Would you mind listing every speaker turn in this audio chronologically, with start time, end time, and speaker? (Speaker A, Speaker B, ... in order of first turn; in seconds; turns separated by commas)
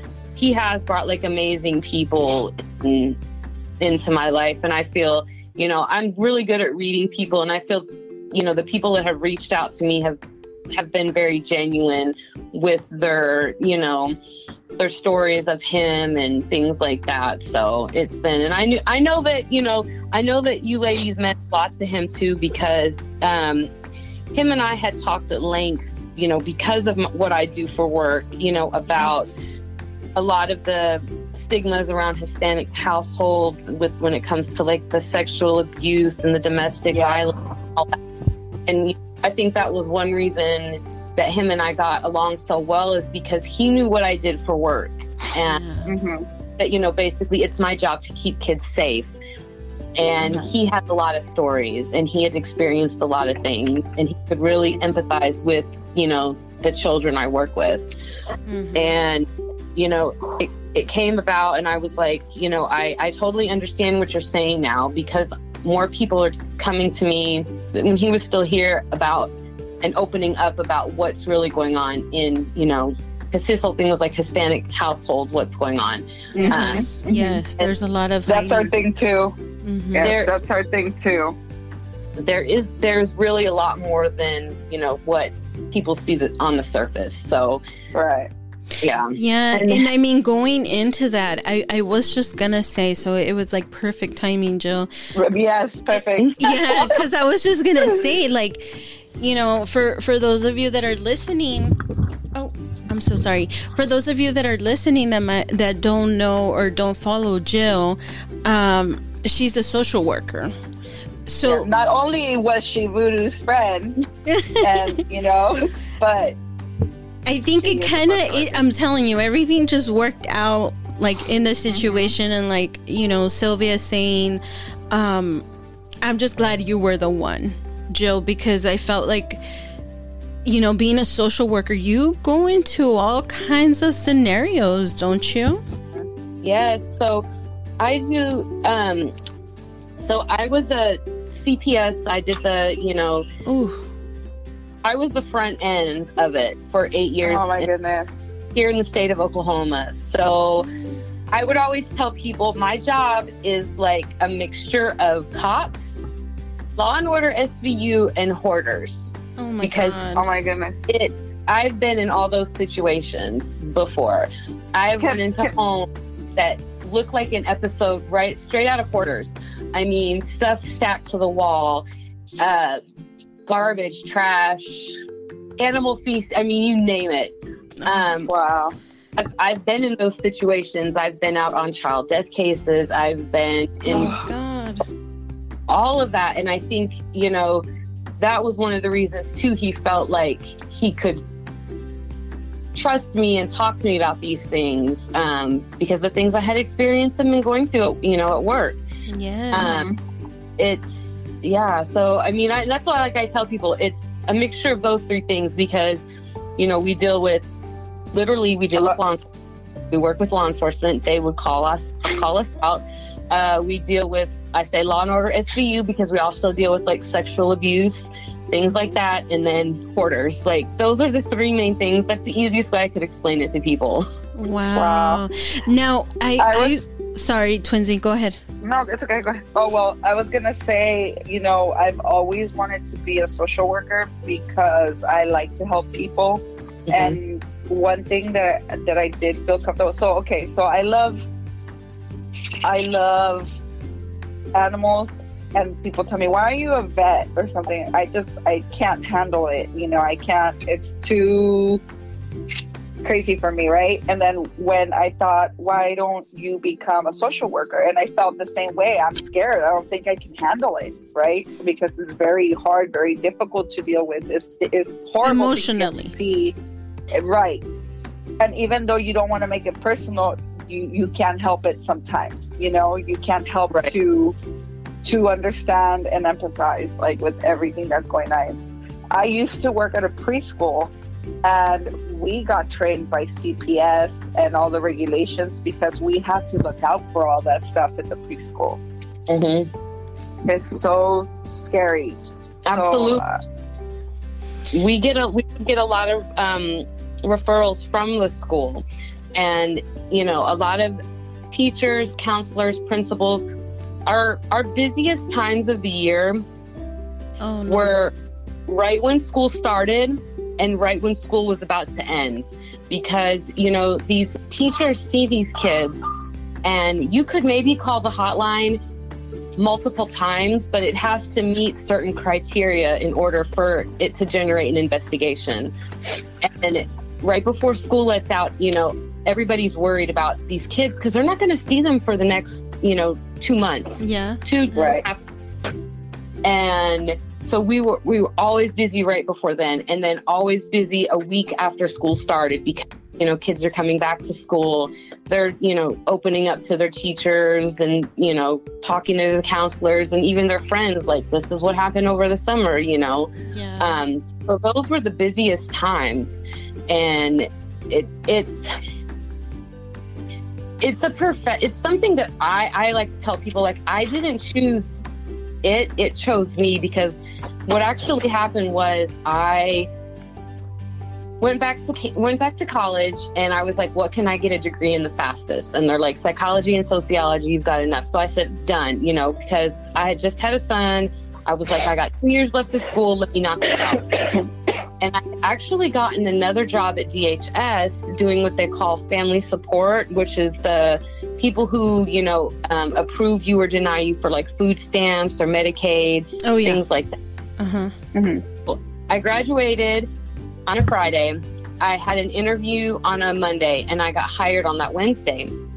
Speaker A: 0.3-3.2, Speaker A: 3.8-10.2, Speaker A: 10.7-14.2, Speaker A: 14.8-23.7, Speaker A: 24.3-29.3, Speaker B: 28.9-29.4, Speaker A: 30.1-38.0, Speaker C: 36.9-37.2, Speaker A: 38.7-45.6, Speaker B: 45.5-45.9, Speaker C: 45.9-46.2, Speaker A: 46.6-49.1, Speaker A: 50.0-58.0, Speaker B: 58.5-59.0, Speaker A: 58.7-77.7, Speaker C: 76.3-77.4, Speaker B: 76.5-78.7, Speaker C: 78.3-79.4, Speaker B: 79.6-80.1, Speaker C: 79.9-81.3, Speaker A: 80.0-80.3, Speaker A: 82.2-87.6, Speaker C: 87.9-88.3, Speaker A: 88.8-89.9, Speaker B: 89.2-94.9, Speaker C: 95.1-97.0, Speaker A: 96.1-96.8, Speaker B: 96.4-101.8, Speaker B: 102.3-110.5, Speaker B: 111.3-111.7, Speaker C: 111.5-114.0, Speaker B: 114.2-115.0, Speaker C: 114.6-116.3, Speaker B: 117.2-125.5, Speaker C: 117.6-118.6, Speaker C: 121.7-122.1, Speaker B: 126.0-129.4, Speaker B: 130.4-135.6, Speaker A: 136.4-137.2, Speaker A: 137.8-139.1, Speaker A: 140.0-143.2, Speaker B: 143.4-143.8, Speaker A: 144.8-147.7, Speaker C: 147.2-148.1, Speaker A: 148.5-150.7, Speaker A: 151.3-156.0, Speaker A: 156.8-160.0, Speaker B: 159.4-160.2, Speaker C: 160.2-160.9, Speaker A: 160.9-171.8, Speaker C: 165.0-165.5, Speaker A: 172.4-172.8, Speaker A: 173.5-175.0, Speaker A: 175.6-178.3, Speaker C: 178.3-178.8, Speaker A: 179.2-184.1, Speaker C: 183.9-184.3, Speaker B: 183.9-184.8, Speaker A: 185.7-187.6, Speaker A: 188.2-191.2, Speaker A: 192.7-198.8, Speaker B: 199.1-199.7, Speaker A: 199.5-199.9, Speaker C: 199.6-200.0, Speaker A: 200.6-206.0, Speaker A: 206.6-207.4, Speaker A: 208.1-209.3, Speaker A: 209.9-224.1, Speaker B: 224.3-228.4, Speaker C: 224.7-225.2, Speaker C: 226.4-226.8, Speaker C: 228.6-241.2, Speaker A: 236.9-237.2, Speaker C: 242.6-243.5, Speaker C: 244.5-251.8, Speaker C: 253.0-266.6, Speaker B: 265.2-266.1, Speaker C: 267.1-267.6, Speaker C: 268.4-274.3, Speaker C: 275.0-278.6, Speaker C: 279.1-280.9, Speaker C: 281.4-288.8, Speaker A: 289.3-289.7, Speaker C: 290.4-293.4, Speaker A: 292.6-293.2, Speaker A: 294.7-298.8, Speaker A: 299.4-301.0, Speaker A: 301.5-303.4, Speaker A: 304.1-306.4, Speaker B: 307.4-308.0, Speaker A: 307.7-308.1, Speaker A: 308.7-316.0, Speaker A: 316.6-318.8, Speaker A: 319.6-325.7, Speaker A: 326.4-335.2, Speaker B: 334.0-334.4, Speaker C: 334.7-335.0, Speaker A: 336.4-358.7, Speaker B: 353.5-353.9, Speaker A: 360.8-365.0, Speaker A: 365.6-369.9, Speaker A: 371.4-384.2, Speaker A: 385.0-397.1, Speaker B: 396.4-396.8, Speaker B: 397.6-397.9, Speaker C: 398.1-398.4, Speaker A: 398.6-400.1, Speaker A: 400.7-405.5